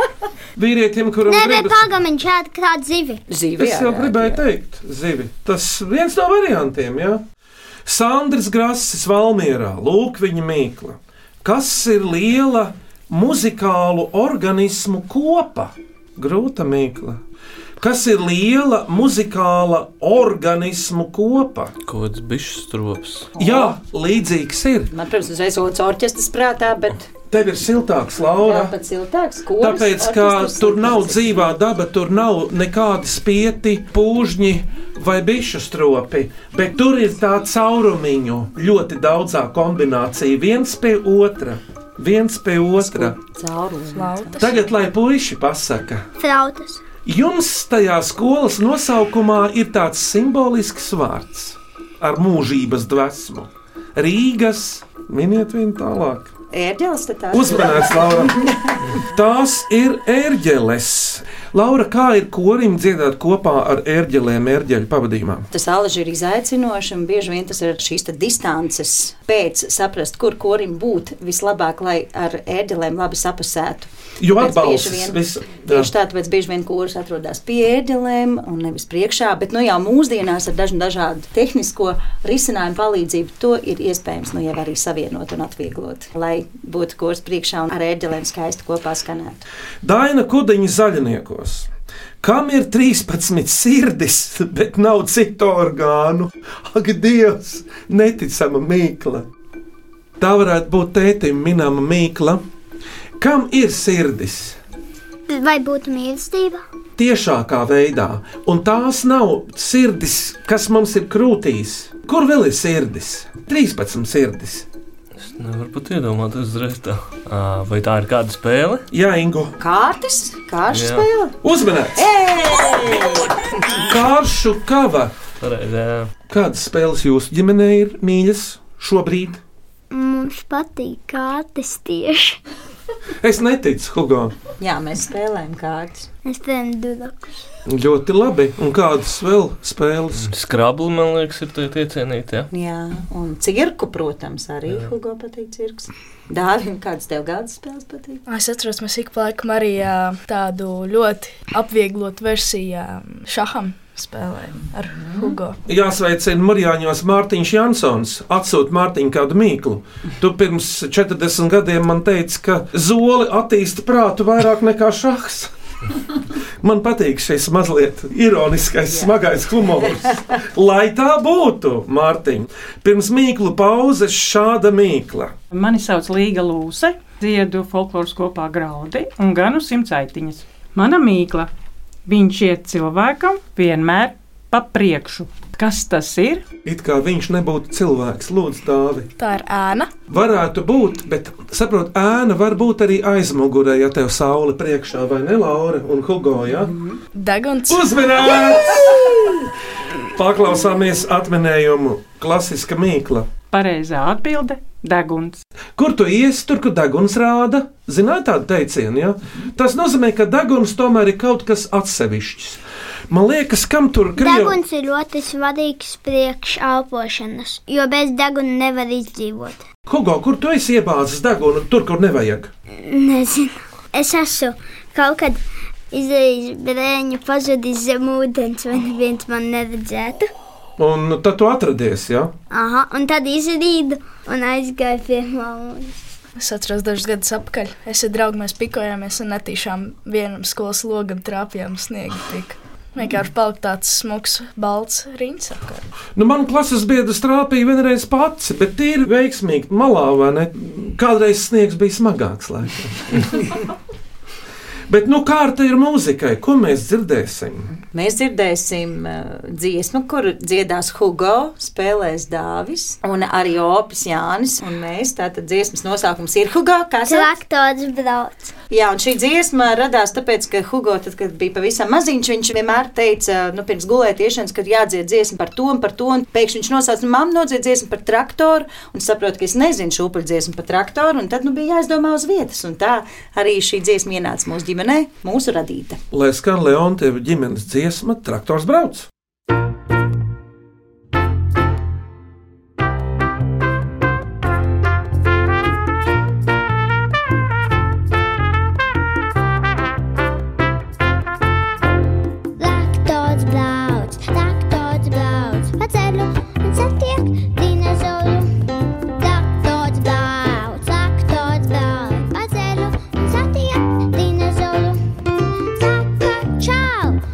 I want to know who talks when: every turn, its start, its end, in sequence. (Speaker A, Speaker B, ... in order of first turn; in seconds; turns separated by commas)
Speaker A: 0.6-1.9, Speaker B: 1.3-3.2, Speaker C: 3.3-4.5, Speaker A: 3.6-7.2, Speaker A: 7.9-17.2, Speaker A: 17.8-21.7, Speaker D: 21.9-23.3, Speaker C: 23.4-23.8, Speaker A: 23.4-24.9, Speaker C: 24.9-27.1, Speaker A: 27.3-28.8, Speaker C: 28.4-31.5, Speaker A: 29.6-43.2, Speaker C: 42.8-44.4, Speaker E: 43.9-44.7, Speaker A: 44.4-46.1, Speaker B: 46.2-46.8, Speaker A: 47.0-56.3, Speaker C: 56.5-58.9, Speaker A: 57.3-58.4, Speaker A: 59.0-65.5, Speaker C: 65.5-89.5, Speaker A: 74.2-75.9, Speaker A: 89.8-91.7, Speaker A: 92.2-99.3, Speaker A: 100.2-102.4, Speaker A: 103.2-104.6, Speaker B: 105.3-106.6, Speaker A: 107.0-114.7, Speaker D: 115.2-118.9, Speaker A: 118.9-119.6, Speaker C: 119.6-121.4, Speaker D: 120.7-121.1, Speaker A: 121.4-122.1, Speaker C: 122.0-123.3, Speaker A: 123.8-125.1, Speaker D: 125.4-126.1, Speaker A: 126.3-129.4, Speaker B: 129.9-132.4, Speaker A: 133.2-134.3, Speaker C: 134.6-136.1, Speaker B: 136.2-137.3, Speaker A: 137.7-140.3, Speaker D: 140.2-142.5, Speaker C: 142.5-148.2, Speaker E: 148.3-155.6, Speaker A: 155.7-165.5, Speaker A: 166.6-175.3, Speaker F: 175.5-181.5, Speaker F: 182.1-186.4, Speaker A: 186.7-189.1, Speaker E: 189.2-189.9, Speaker A: 190.1-196.8, Speaker E: 197.1-197.9, Speaker A: 197.7-199.2, Speaker A: 200.1-203.3, Speaker F: 203.5-205.4, Speaker A: 205.8-214.6, Speaker B: 214.2-219.6, Speaker A: 219.9-222.5, Speaker B: 222.8-225.4, Speaker B: 225.9-230.3, Speaker A: 230.8-232.3, Speaker B: 232.5-236.0, Speaker E: 236.4-245.8, Speaker A: 246.2-253.7, Speaker A: 254.9-257.7, Speaker C: 257.9-267.4, Speaker B: 267.1-268.5, Speaker C: 268.7-286.0, Speaker A: 286.1-289.1, Speaker B: 302.6-308.5, Speaker B: 309.2-315.0